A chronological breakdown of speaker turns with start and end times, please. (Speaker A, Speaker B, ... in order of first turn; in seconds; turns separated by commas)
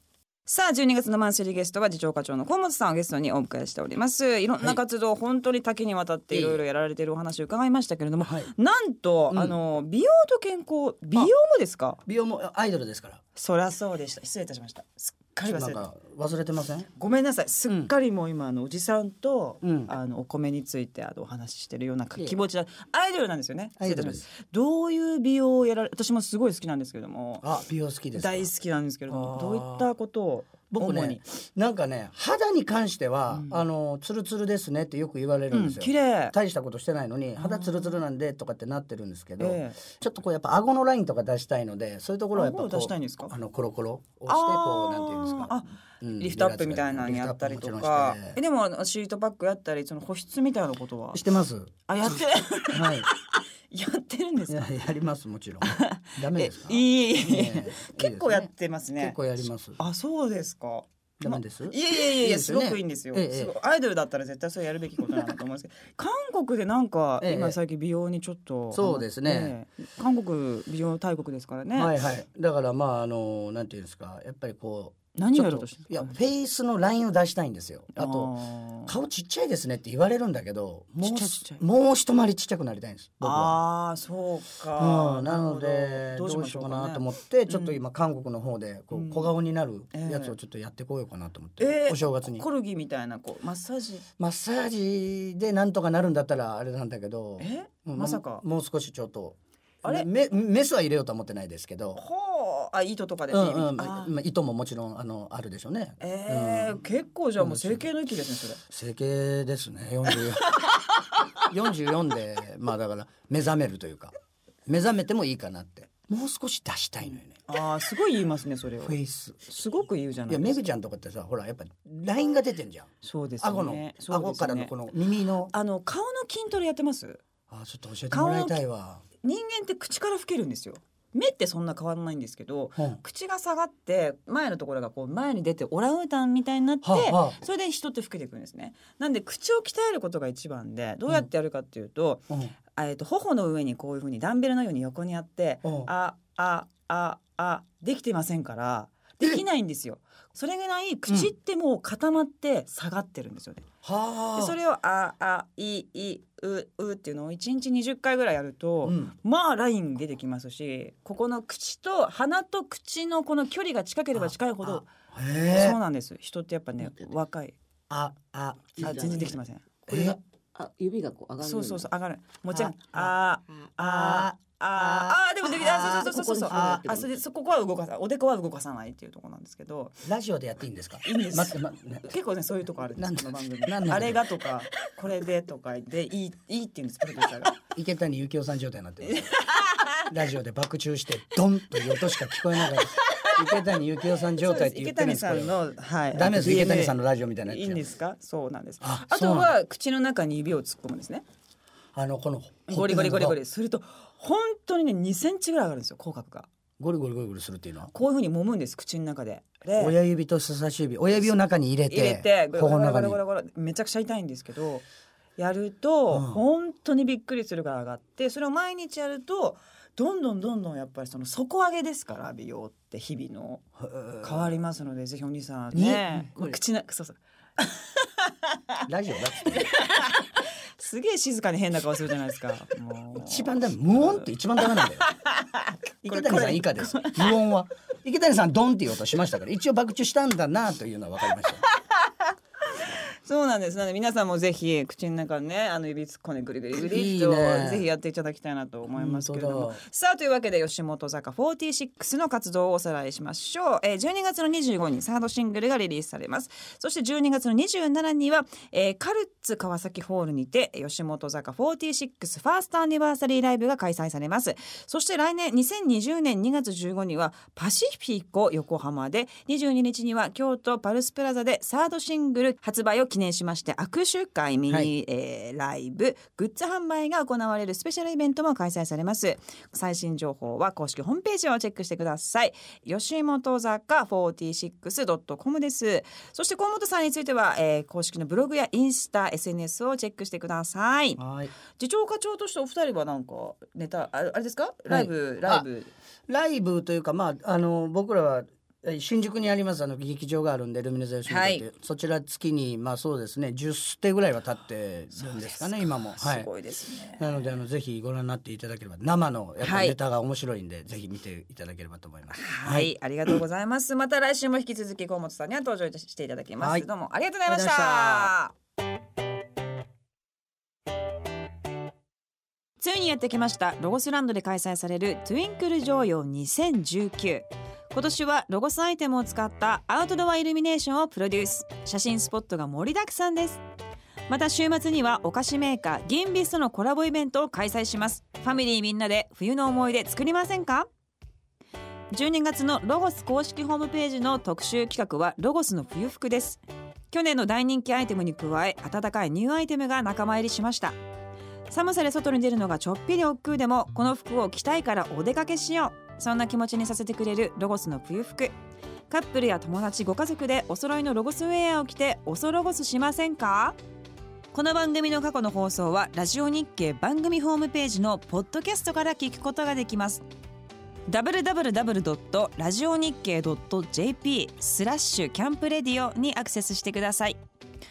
Speaker A: 0.5-12.0, Speaker B: 6.3-6.6, Speaker B: 8.2-8.5, Speaker B: 9.3-9.6, Speaker B: 12.1-13.2, Speaker A: 13.4-15.9, Speaker B: 15.4-16.9, Speaker A: 17.0-27.4, Speaker B: 19.6-19.9, Speaker B: 23.8-24.2, Speaker B: 27.4-28.5, Speaker A: 28.1-31.2, Speaker B: 29.1-29.9, Speaker B: 30.7-48.4, Speaker A: 33.3-33.6, Speaker A: 35.5-36.4, Speaker A: 37.4-38.0, Speaker A: 39.4-39.8, Speaker A: 42.3-43.4, Speaker A: 44.3-51.2, Speaker B: 51.1-53.1, Speaker A: 51.9-54.8, Speaker B: 54.5-59.8, Speaker A: 55.6-59.2, Speaker A: 59.8-71.9, Speaker B: 61.2-63.5, Speaker B: 67.2-67.6, Speaker B: 68.7-69.5, Speaker B: 71.7-78.3, Speaker A: 75.2-76.1, Speaker A: 78.0-78.9, Speaker B: 78.9-83.6, Speaker A: 81.0-81.6, Speaker A: 83.2-87.8, Speaker B: 84.8-92.5, Speaker A: 88.9-89.3, Speaker A: 89.9-90.4, Speaker A: 91.6-94.1, Speaker B: 94.2-102.0, Speaker A: 97.4-98.4, Speaker A: 102.0-104.1, Speaker B: 103.3-106.8, Speaker A: 106.0-108.6, Speaker B: 107.4-107.9, Speaker B: 108.7-110.9, Speaker B: 111.4-114.1, Speaker B: 114.7-117.4, Speaker A: 117.5-120.6, Speaker B: 118.8-119.4, Speaker B: 120.3-125.5, Speaker A: 123.0-124.7, Speaker A: 125.5-127.2, Speaker B: 127.5-129.0, Speaker A: 128.1-128.6, Speaker A: 129.2-153.7, Speaker B: 136.8-137.4, Speaker B: 145.6-145.9, Speaker B: 151.1-151.3, Speaker B: 153.8-154.6, Speaker A: 154.3-164.9, Speaker B: 158.8-159.2, Speaker B: 164.1-165.8, Speaker A: 165.5-167.6, Speaker C: 166.8-167.2, Speaker B: 167.9-170.2, Speaker A: 168.8-169.7, Speaker C: 168.8-169.3, Speaker C: 169.9-171.9, Speaker A: 171.4-180.0, Speaker B: 172.5-173.1, Speaker B: 173.8-177.0, Speaker C: 175.5-177.1, Speaker B: 180.0-182.1, Speaker A: 181.0-187.6, Speaker B: 183.0-184.2, Speaker B: 187.7-189.3, Speaker A: 189.1-190.0, Speaker B: 190.1-197.8, Speaker A: 193.1-193.4, Speaker A: 194.4-201.2, Speaker B: 198.8-199.5, Speaker B: 201.9-203.4, Speaker A: 202.7-206.5, Speaker B: 206.8-207.9, Speaker A: 207.9-210.0, Speaker B: 209.8-213.2, Speaker A: 211.9-214.9, Speaker A: 215.4-223.6, Speaker B: 216.1-216.4, Speaker B: 223.8-224.6, Speaker A: 224.2-228.8, Speaker B: 225.7-226.6, Speaker B: 228.8-229.7, Speaker A: 229.5-237.4, Speaker B: 233.2-235.1, Speaker B: 236.1-241.6, Speaker A: 241.9-295.9, Speaker B: 246.8-247.9, Speaker B: 248.9-249.8, Speaker B: 291.2-291.5, Speaker B: 294.9-295.7, Speaker B: 296.3-306.5, Speaker A: 301.3-301.7, Speaker A: 305.1-307.4, Speaker B: 307.2-313.4, Speaker A: 309.6-310.0, Speaker A: 312.3-318.5, Speaker B: 316.6-316.9, Speaker B: 317.5-318.4, Speaker A: 322.8-333.6, Speaker A: 334.3-340.9, Speaker A: 342.1-351.0, Speaker A: 351.7-358.6, Speaker A: 359.1-363.8, Speaker A: 364.5-370.2, Speaker A: 371.1-377.4